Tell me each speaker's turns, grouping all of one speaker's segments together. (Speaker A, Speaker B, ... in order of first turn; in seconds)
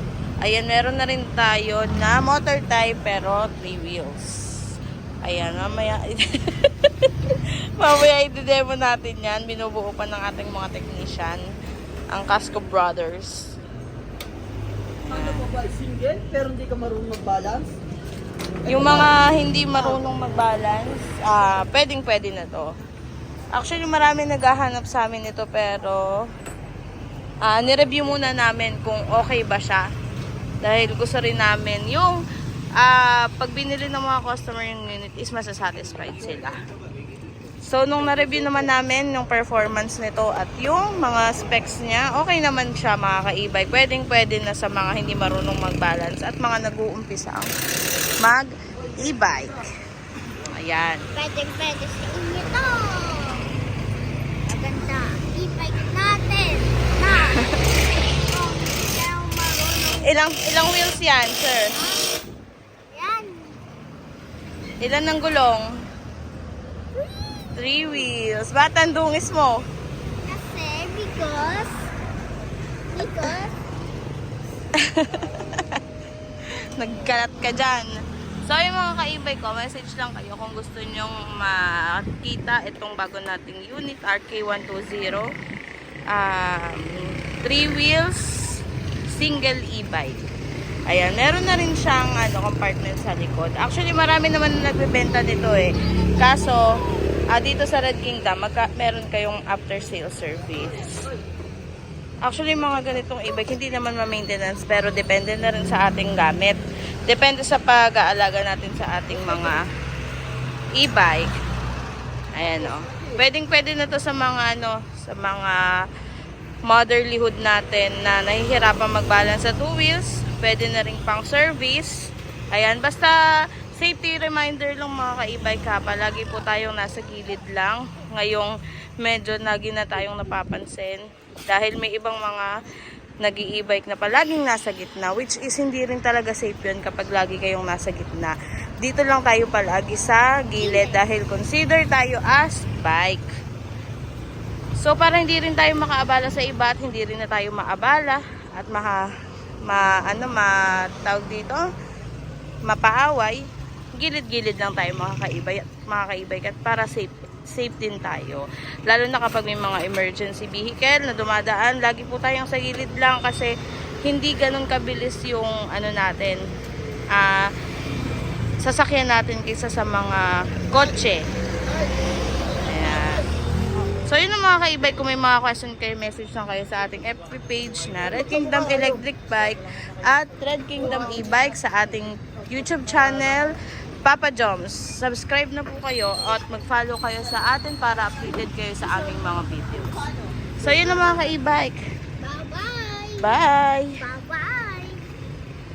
Speaker A: 0.4-4.4, 5.2-11.4, 12.1-13.5, 15.0-15.6, 18.7-22.7, 23.6-26.0, 27.4-29.8, 30.6-32.2, 32.8-36.5, 37.7-47.5, 48.2-49.6, 50.4-51.0, 60.0-61.7, 64.8-65.7, 67.6-69.6, 74.8-75.8, 76.8-77.9, 78.5-85.3, 86.1-90.2, 90.9-96.6, 97.3-100.9, 102.3-109.6, 110.8-111.3, 112.4-115.6, 116.7-122.0, 122.5-123.1, 123.7-132.5, 133.2-143.3, 144.8-149.0, 149.7-151.6, 152.7-153.4, 154.0-163.5, 164.1-166.4, 167.2-167.4, 168.6-171.2, 172.6-173.3, 174.1-183.5, 184.1-190.0, 190.6-191.8, 193.2-194.0
Speaker B: 15.8-17.7
Speaker C: 51.1-53.5, 54.5-57.5, 58.2-60.2, 61.7-62.2, 62.9-63.6, 70.2-71.9, 72.9-73.5, 96.0-96.8, 140.6-141.0, 192.2-193.4, 194.0-195.0